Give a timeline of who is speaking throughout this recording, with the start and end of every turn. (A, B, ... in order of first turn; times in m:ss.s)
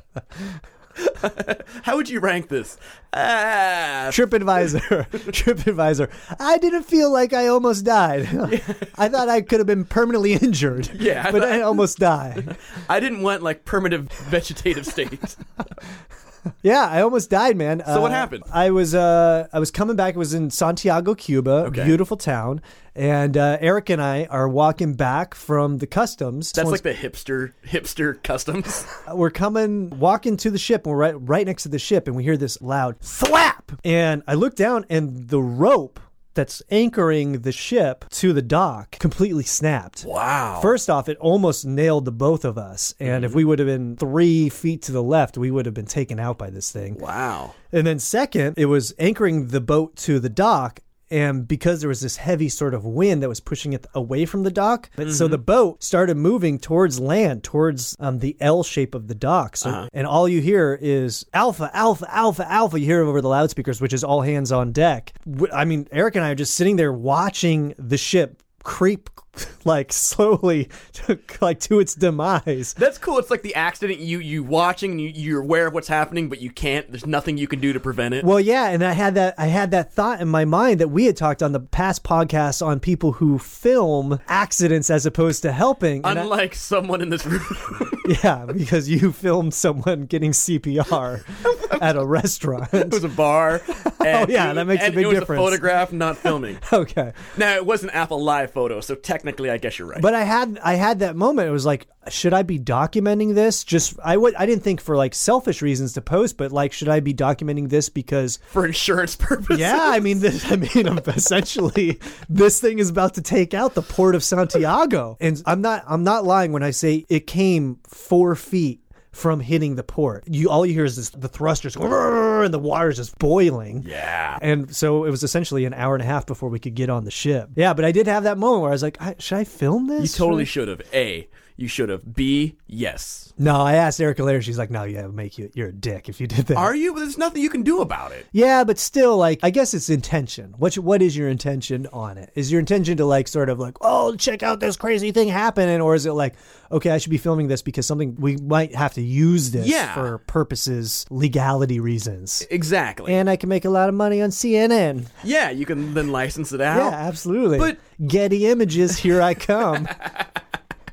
0:01.0-0:04.3 A
0:04.1-0:12.5 B
0:08.4-0:08.9 A
0:10.9-0:11.9 A
0:12.4-0:15.4 A
0:16.6-0:26.8 B
0:17.9-0:18.5 A
0:21.6-0:22.0 A
0:26.6-0:28.9 A
0:29.1-0:40.1 B
0:40.0-0:40.8 A
0:40.6-0:47.0 B
0:43.0-0:43.4 A
0:47.0-0:47.6 A
0:47.7-1:12.8 B
0:55.0-0:55.4 A
0:59.6-0:59.9 A
1:12.8-1:18.3 A
1:18.2-1:26.3 B
1:26.0-1:28.1 A
1:28.0-1:33.0 B
1:31.4-1:31.9 A
1:32.7-1:36.6 A
1:33.8-1:35.7 B
1:36.2-1:37.2 B
1:37.3-1:40.1 A
1:40.0-1:48.4 B
1:48.5-1:50.2 A
1:49.5-2:03.9 B
2:03.8-2:04.4 A
2:04.4-2:10.5 B
2:10.0-2:13.3 A
2:13.4-2:16.7 B
2:16.5-2:18.3 A
2:18.3-2:32.5 B
2:29.6-2:30.2 A
2:32.4-2:33.2 A
2:33.1-2:35.1 B
2:35.2-2:37.0 A
2:36.7-2:39.9 B
2:40.0-2:40.2 A